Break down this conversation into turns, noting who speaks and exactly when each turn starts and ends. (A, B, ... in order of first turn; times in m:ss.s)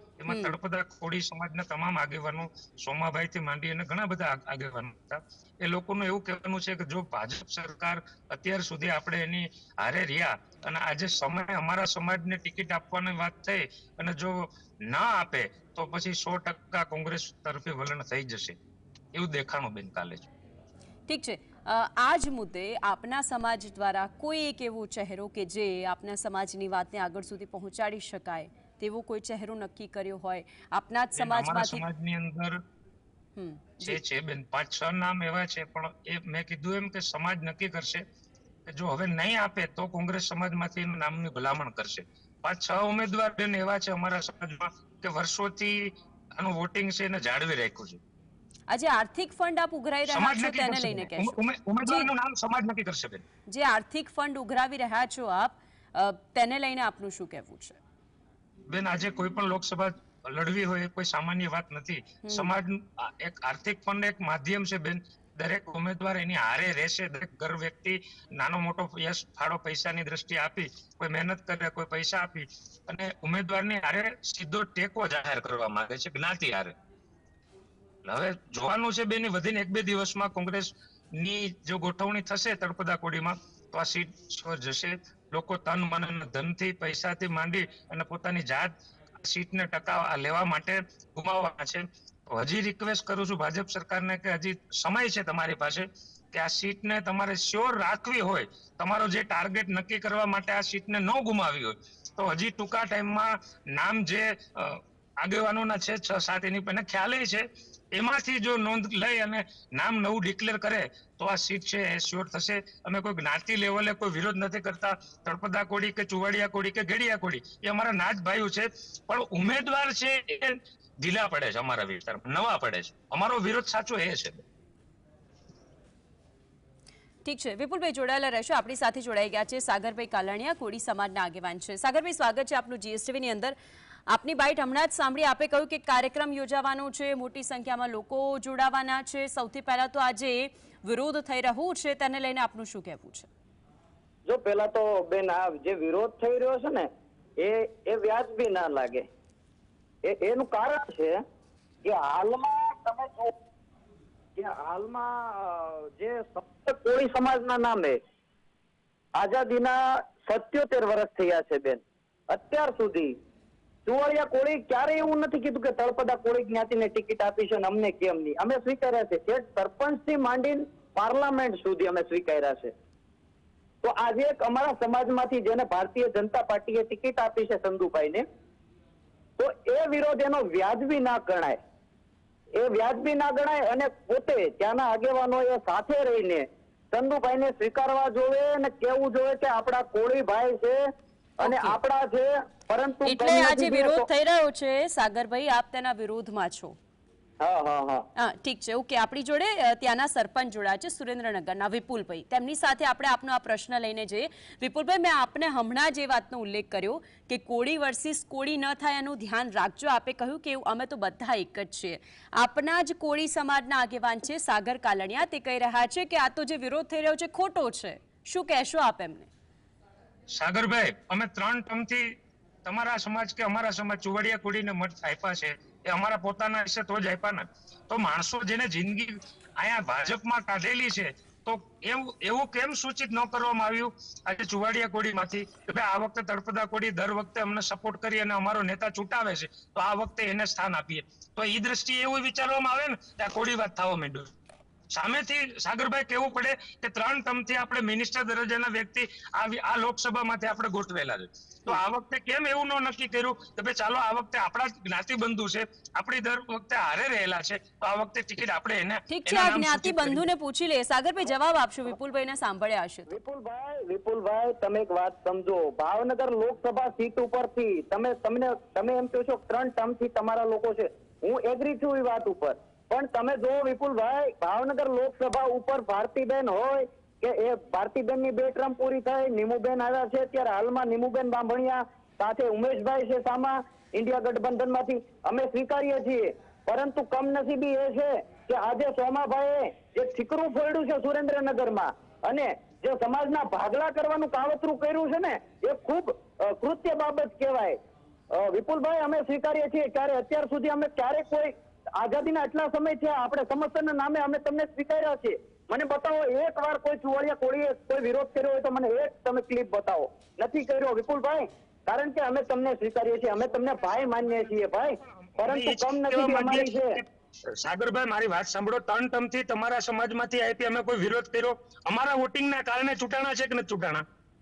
0:00.2-0:18.6 A
0:00.3-0:00.6 B
0:19.1-0:20.3 A
0:21.1-0:31.8 B
0:31.2-0:32.6 A
0:33.4-0:34.0 B
0:33.8-0:38.0 A
0:38.7-0:48.0 A
0:48.7-0:52.1 B
0:50.1-0:53.2 A
0:53.5-0:57.8 B
0:58.7-1:16.7 A
1:02.2-1:02.5 B
1:18.0-2:04.4 A
2:07.2-2:13.6 B
2:14.1-2:23.3 B
2:24.3-2:29.1 C
2:30.0-2:31.2 C
2:31.8-2:33.3 C
2:34.4-2:38.0 C
2:39.2-2:43.2 C
2:43.9-2:52.7 C
2:53.8-2:58.2 C
2:59.4-3:01.6 C
3:02.6-3:10.8 C
3:11.4-3:11.8 B
3:11.4-3:14.1 C
3:13.0-3:16.8 B
3:17.4-3:18.1 C
3:18.2-3:39.3 B
3:40.3-3:42.1 A
3:42.6-4:04.3 A
4:05.0-4:20.2 A
4:19.1-4:23.2 B
4:23.1-4:57.8 C
4:58.3-5:17.0 C
5:13.5-5:24.0 A